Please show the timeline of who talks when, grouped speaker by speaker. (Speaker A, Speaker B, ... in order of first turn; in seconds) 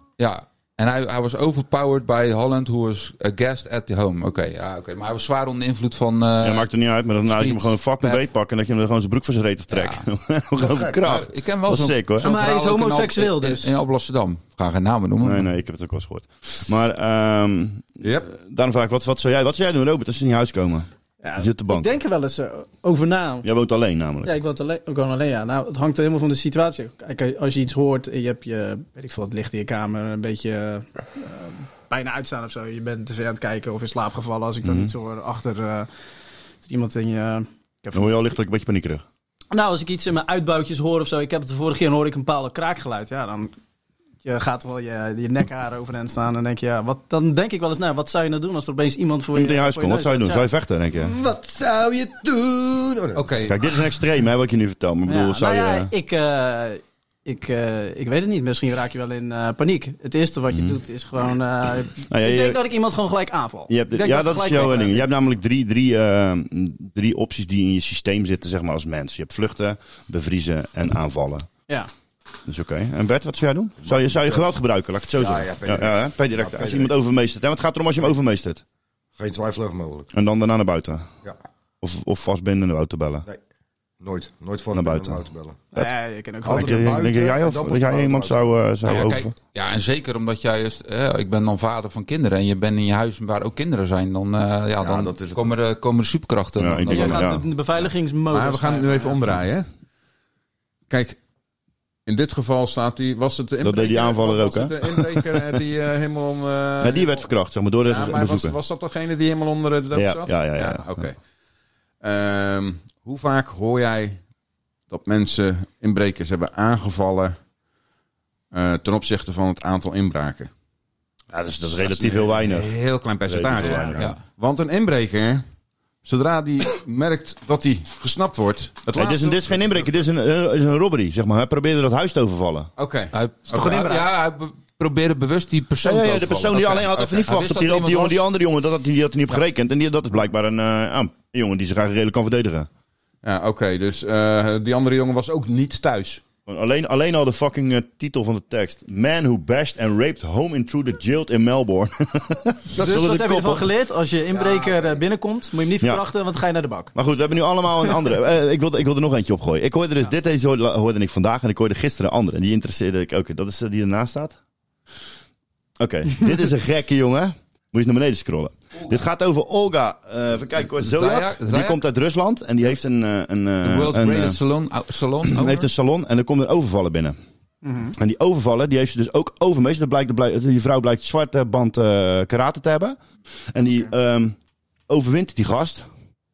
Speaker A: 0.2-6.7, 7.2-8.2, 9.7-10.0, 11.0-15.5, 88.8-97.9, 133.1-138.2, 154.3-154.7, 170.8-171.8, 173.6-175.7
Speaker B: 6.4-12.3, 15.2-21.9, 23.4-24.4, 34.6-34.9, 37.9-39.0, 49.3-51.1, 53.5-55.9, 60.5-60.8, 62.1-62.6, 63.7-71.5, 72.5-78.6, 80.1-81.1, 81.8-83.3, 84.7-85.2, 86.5-89.3, 96.6-97.5, 103.6-105.3, 106.8-108.6, 109.9-111.1, 121.3-124.1, 128.9-132.7, 135.8-142.7, 146.5-153.7, 156.9-164.4, 165.8-174.4, 175.2-177.2, 177.9-183.0, 183.5-184.4, 184.9-185.9
Speaker C: 10.7-11.0, 51.0-53.3, 73.8-74.5, 75.2-76.9, 79.2-80.1, 84.0-85.6, 86.5-88.6, 94.8-95.5
Speaker D: 12.2-13.7, 21.2-23.5, 24.2-35.9, 36.6-38.1, 39.5-43.5, 44.2-50.5, 55.1-65.0, 85.7-87.0, 96.9-99.2, 152.7-156.9, 177.6-177.9
Speaker E: 18.0-18.3, 53.1-53.5, 98.3-99.7, 100.9-101.2, 102.1-107.2, 107.8-111.2, 112.0-114.2, 114.9-117.4, 118.5-120.5, 121.8-125.4, 126.0-129.8, 132.8-134.1, 143.2-146.2